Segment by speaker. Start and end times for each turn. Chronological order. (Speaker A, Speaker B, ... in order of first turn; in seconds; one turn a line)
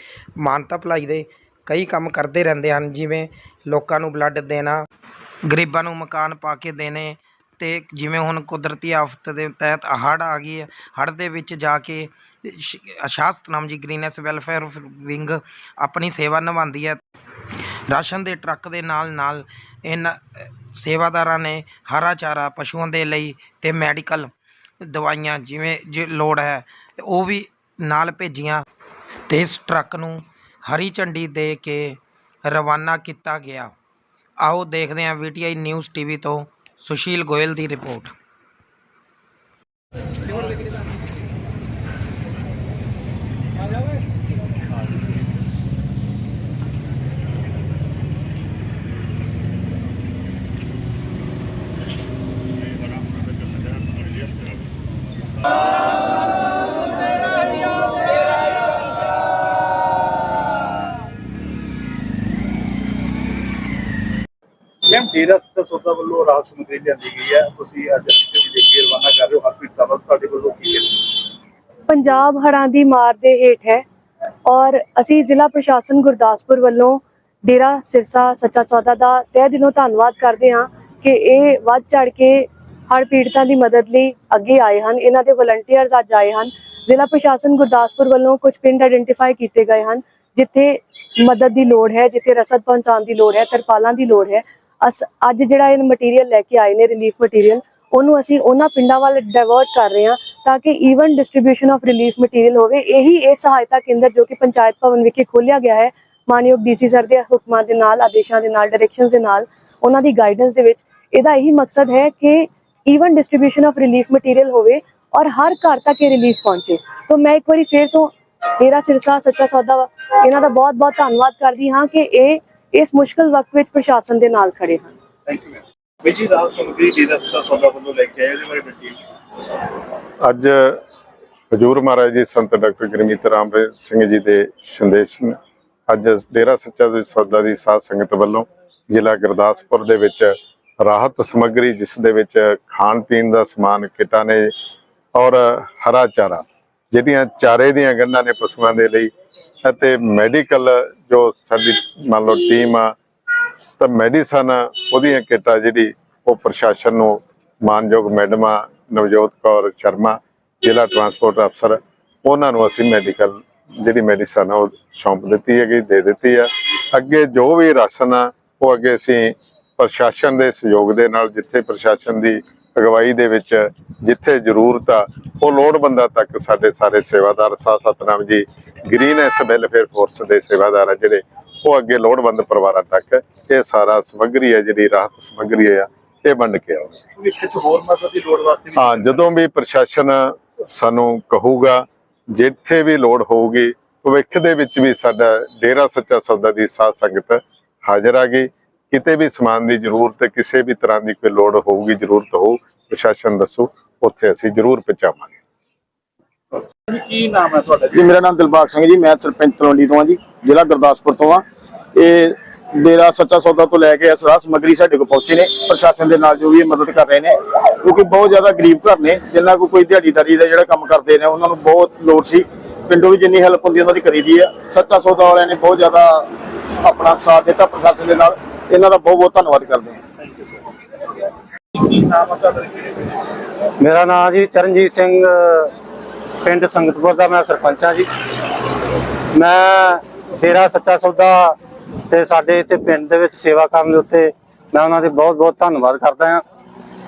Speaker A: 0.4-4.8
Speaker A: 5.5-17.0
Speaker A: 17.9-28.6
Speaker A: 29.3-33.7
Speaker A: 34.4-38.1
Speaker B: 64.9-71.2
Speaker C: 71.9-73.8
Speaker C: 74.5-124.9
Speaker B: 125.3-129.0
Speaker D: 130.2-130.8
Speaker D: 131.5-144.5
Speaker D: 145.2-149.1
Speaker D: 149.6-152.9
Speaker D: 153.8-187.0
Speaker B: 187.3-189.0
Speaker D: 188.8-205.3
Speaker B: 206.9-207.8
Speaker E: 207.9-211.4
Speaker E: 211.9-226.3
Speaker E: 226.8-230.0
Speaker B: 231.8-232.9
Speaker F: 233.8-235.7
Speaker F: 236.4-238.1
Speaker F: 239.3-241.6
Speaker F: 242.1-246.4